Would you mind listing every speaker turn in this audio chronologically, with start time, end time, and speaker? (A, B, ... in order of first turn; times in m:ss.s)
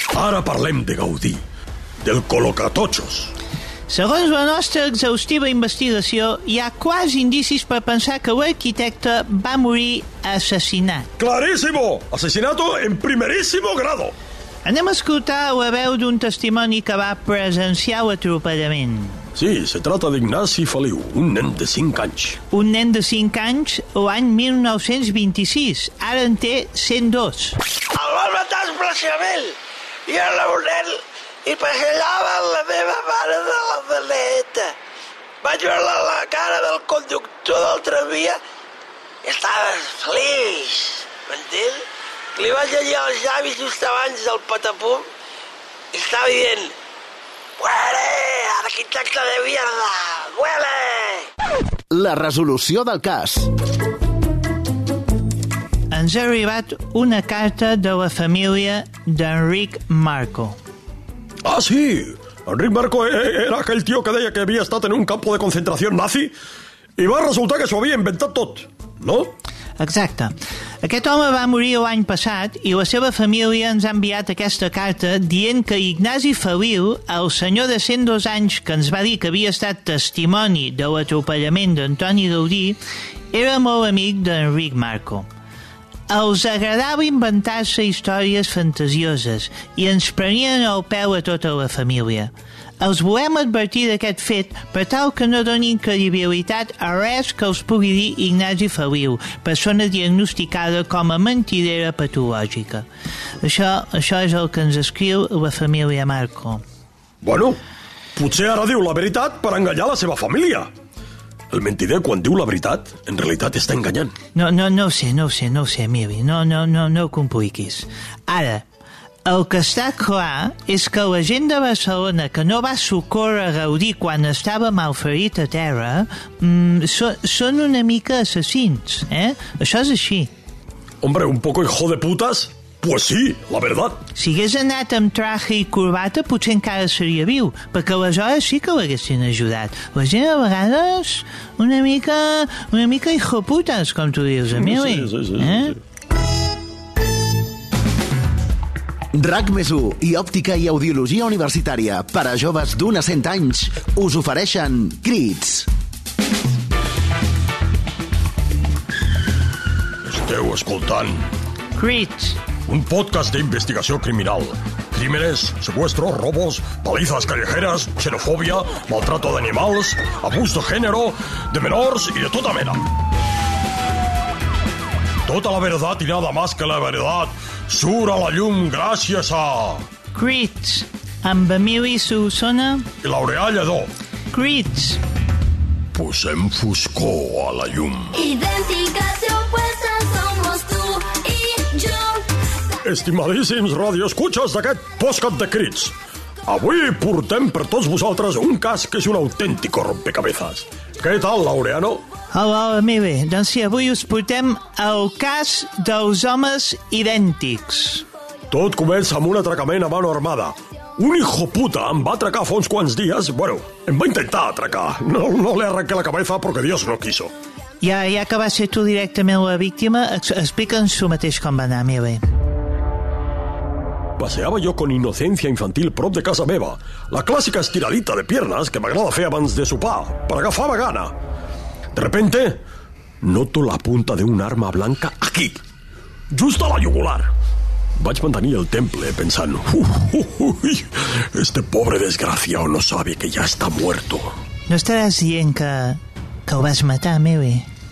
0:00.1-0:01.4 A
0:02.0-0:03.3 A
0:03.9-0:11.1 B
0:11.2-0:14.2 A
0:14.6-0:19.2 B
0:19.4-0:22.4 A
0:22.5-0:27.6 B
0:27.9-0:34.8 C
0:35.4-0:38.4 C
0:39.2-0:41.8 C
0:42.4-0:45.1 C
0:45.9-0:46.8 C
0:47.6-0:51.3 C
0:51.9-0:53.5 D
0:55.9-1:00.6 B
1:01.5-1:06.3 A
1:07.0-1:09.3 A
1:09.8-1:22.8 B
1:23.3-1:25.3 B
1:26.1-1:42.9 B
1:43.4-1:46.6 B
1:47.2-1:47.6 A
1:48.2-1:50.7 A
1:51.5-1:54.1 A
1:54.4-1:58.6 B
1:59.3-2:10.3 B
2:11.0-2:14.0 A
2:14.2-2:25.8 B
2:24.5-2:25.8 A
2:29.1-2:35.7 D
2:40.0-2:41.3 A
2:41.8-2:42.4 B
2:42.7-2:52.9 A
2:55.3-2:59.8 A
3:00.1-3:02.9 B
3:03.0-3:03.9 A
3:04.3-3:05.0 B
3:05.9-3:08.2 A
3:08.2-3:12.3 E
3:12.8-3:15.9 A
3:16.4-3:22.0 A
3:22.3-3:28.0 B
3:28.5-3:37.3 A
3:37.8-3:42.2 B
3:44.2-3:51.1 A
3:51.9-3:52.6 A
3:53.2-3:55.6 A
3:56.3-3:57.3 A
3:58.0-4:04.4 A
4:04.7-4:07.7 B